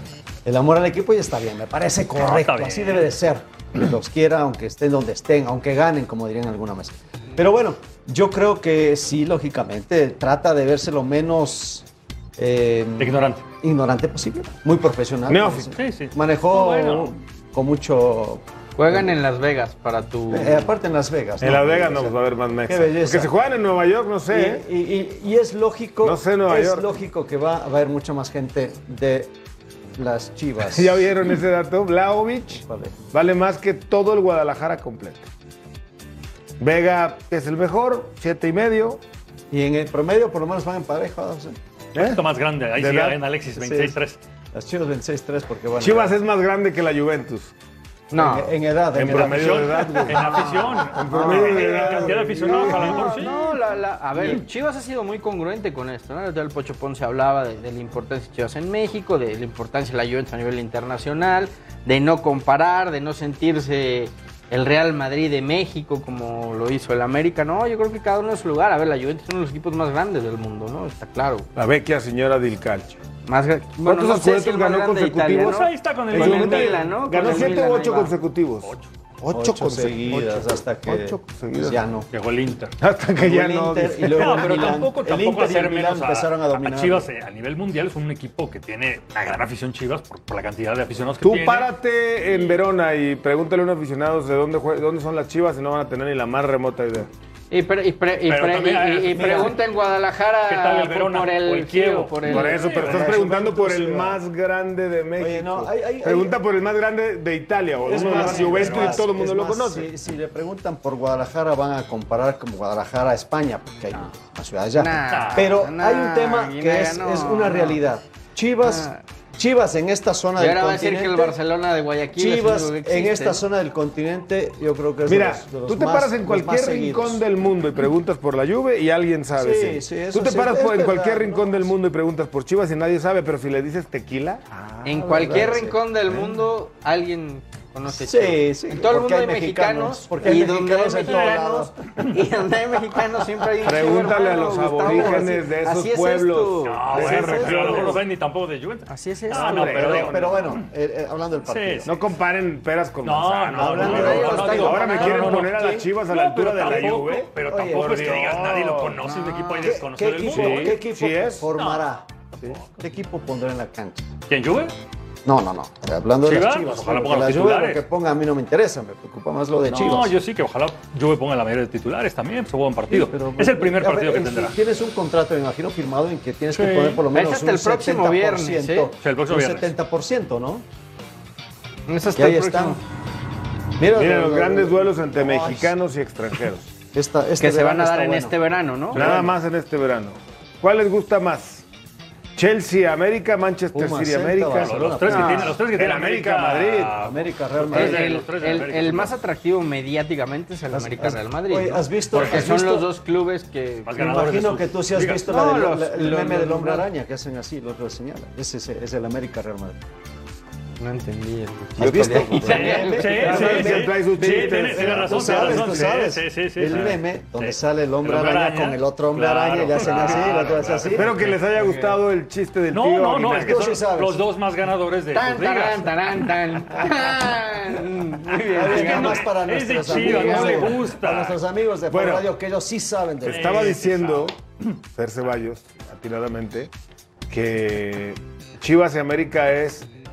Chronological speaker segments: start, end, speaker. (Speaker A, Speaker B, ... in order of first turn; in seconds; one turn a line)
Speaker A: 0.4-11.8
Speaker B: 2.2-3.1
Speaker A: 12.4-19.1
Speaker B: 13.0-13.4
Speaker C: 15.3-15.7
Speaker B: 15.7-17.1
Speaker D: 18.8-20.7
Speaker A: 20.3-22.1
Speaker C: 21.4-24.6
Speaker A: 22.7-23.3
Speaker A: 24.3-29.3
Speaker C: 26.0-26.9
Speaker A: 30.0-31.1
Speaker C: 30.6-35.3
Speaker A: 32.6-32.9
Speaker C: 36.6-39.0
Speaker A: 39.5-41.6
Speaker C: 41.9-42.2
Speaker B: 42.0-44.2
Speaker C: 42.8-43.2
Speaker A: 43.5-43.9
Speaker A: 44.5-46.2
Speaker C: 45.8-47.5
Speaker D: 48.1-48.5
Speaker A: 48.1-53.1
Speaker C: 48.9-53.1
Speaker B: 49.1-53.4
Speaker D: 52.9-71.5
Speaker C: 71.5-73.0
Speaker D: 73.2-78.1
Speaker C: 73.8-81.8
Speaker B: 75.5-76.9
Speaker B: 78.6-78.9
Speaker A: 79.3-82.0
Speaker B: 82.1-82.7
Speaker C: 82.8-84.8
Speaker A: 83.2-87.1
Speaker B: 84.1-91.7
Speaker C: 91.2-97.1
Speaker B: 92.2-92.6
Speaker D: 97.5-102.7
Speaker B: 98.3-99.5
Speaker A: 99.1-99.5
Speaker B: 100.5-103.2
Speaker C: 102.2-109.9
Speaker A: 102.3-104.2
Speaker A: 105.2-106.4
Speaker A: 107.8-121.4
Speaker D: 107.9-108.6
Speaker B: 108.5-108.9
Speaker D: 114.8-117.8
Speaker B: 115.1-115.5
Speaker D: 118.6-119.0
Speaker D: 120.4-123.4
Speaker A: 122.1-127.2
Speaker C: 125.0-135.4
Speaker A: 129.3-131.7
Speaker D: 134.8-146.8
Speaker A: 134.9-135.8
Speaker A: 137.9-141.7
Speaker B: 141.1-142.1
Speaker C: 143.6-148.0
Speaker A: 144.8-145.3
Speaker B: 146.6-150.7
Speaker A: 146.9-148.0
Speaker D: 148.9-149.7
Speaker C: 149.3-150.2
Speaker A: 149.6-152.0
Speaker B: 151.4-151.9
Speaker C: 151.8-159.0
Speaker B: 153.0-160.8
Speaker A: 153.5-155.9
Speaker D: 153.9-155.3
Speaker A: 157.4-158.1
Speaker D: 159.1-159.6
Speaker A: 159.3-162.1
Speaker C: 160.2-161.5
Speaker B: 161.5-162.8
Speaker A: 162.8-164.1
Speaker B: 164.3-164.7
Speaker A: 165.2-170.1
Speaker B: 166.2-167.8
Speaker B: 169.7-174.6
Speaker A: 172.9-180.6
Speaker B: 176.5-177.0
Speaker D: 177.1-178.9
Speaker B: 179.0-179.7
Speaker D: 181.9-182.8
Speaker A: 182.2-182.8
Speaker A: 183.8-185.8
Speaker C: 183.8-186.7
Speaker A: 186.9-188.4
Speaker D: 187.4-189.1
Speaker B: 188.9-189.3
Speaker C: 188.9-191.6
Speaker C: 192.3-194.7
Speaker A: 193.7-195.6
Speaker B: 194.6-199.1
Speaker D: 195.1-195.5
Speaker C: 195.7-196.9
Speaker A: 196.9-198.1
Speaker D: 197.7-204.0
Speaker A: 200.7-202.9
Speaker B: 202.1-202.4
Speaker B: 203.8-205.2
Speaker A: 203.9-209.8
Speaker D: 205.3-206.9
Speaker D: 210.8-213.6
Speaker C: 211.8-216.0
Speaker A: 211.8-221.1
Speaker B: 212.5-221.4
Speaker C: 220.9-223.7
Speaker D: 221.5-221.9
Speaker B: 222.7-226.0
Speaker A: 223.4-224.2
Speaker D: 225.1-229.2
Speaker A: 228.5-233.8
Speaker B: 228.6-231.4
Speaker D: 229.9-230.6
Speaker C: 231.9-232.3
Speaker C: 233.2-234.3
Speaker B: 233.2-234.3
Speaker C: 234.9-236.7
Speaker C: 237.3-239.9